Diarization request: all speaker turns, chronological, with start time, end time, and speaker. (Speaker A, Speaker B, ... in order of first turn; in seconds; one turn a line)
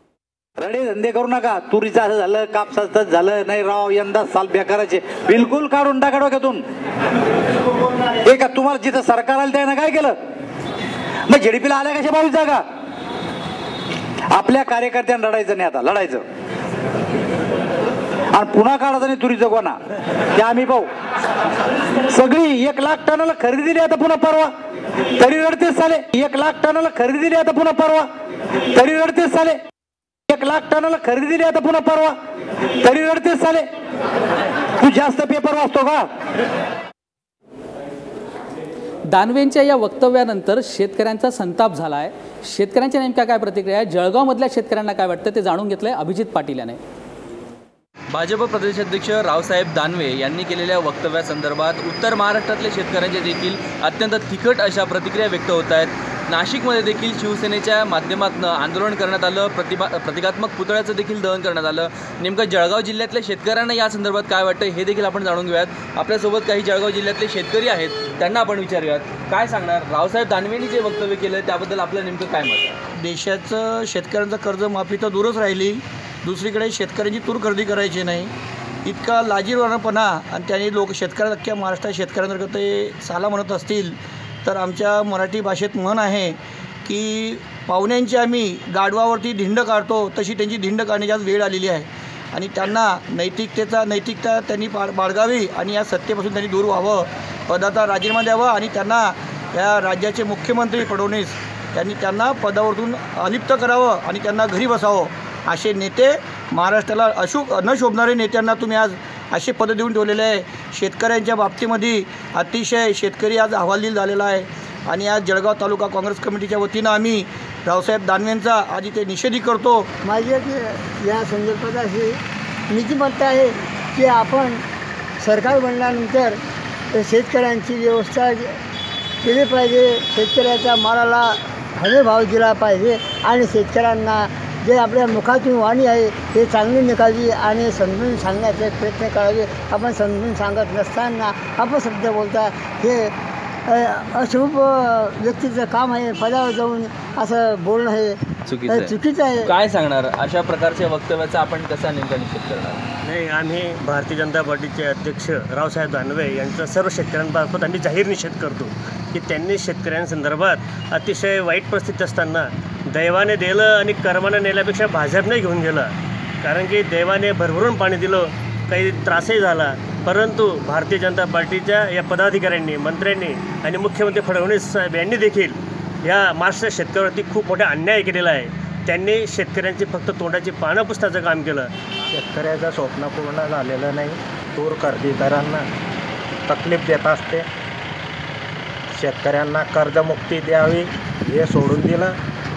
Speaker A: 0.6-6.6
Speaker A: 8.2-10.2
Speaker A: 11.3-12.7
Speaker A: 14.3-16.2
Speaker A: 18.3-19.8
Speaker A: 20.3-20.9
Speaker A: 22.1-24.5
Speaker A: 25.1-28.1
Speaker A: 28.7-29.6
Speaker A: 30.3-32.2
Speaker A: 32.8-33.7
Speaker A: 34.8-36.1
Speaker B: 39.1-46.8
Speaker C: 48.1-72.8
Speaker D: 73.0-78.3
Speaker D: 78.8-119.9
Speaker E: 120.0-122.2
Speaker E: 122.7-124.6
Speaker E: 125.2-126.4
Speaker E: 126.9-128.5
Speaker E: 129.2-143.1
Speaker E: 143.7-149.5
Speaker C: 148.5-152.9
Speaker F: 153.0-181.7
Speaker G: 182.1-185.6
Speaker G: 186.5-187.4
Speaker G: 189.0-192.1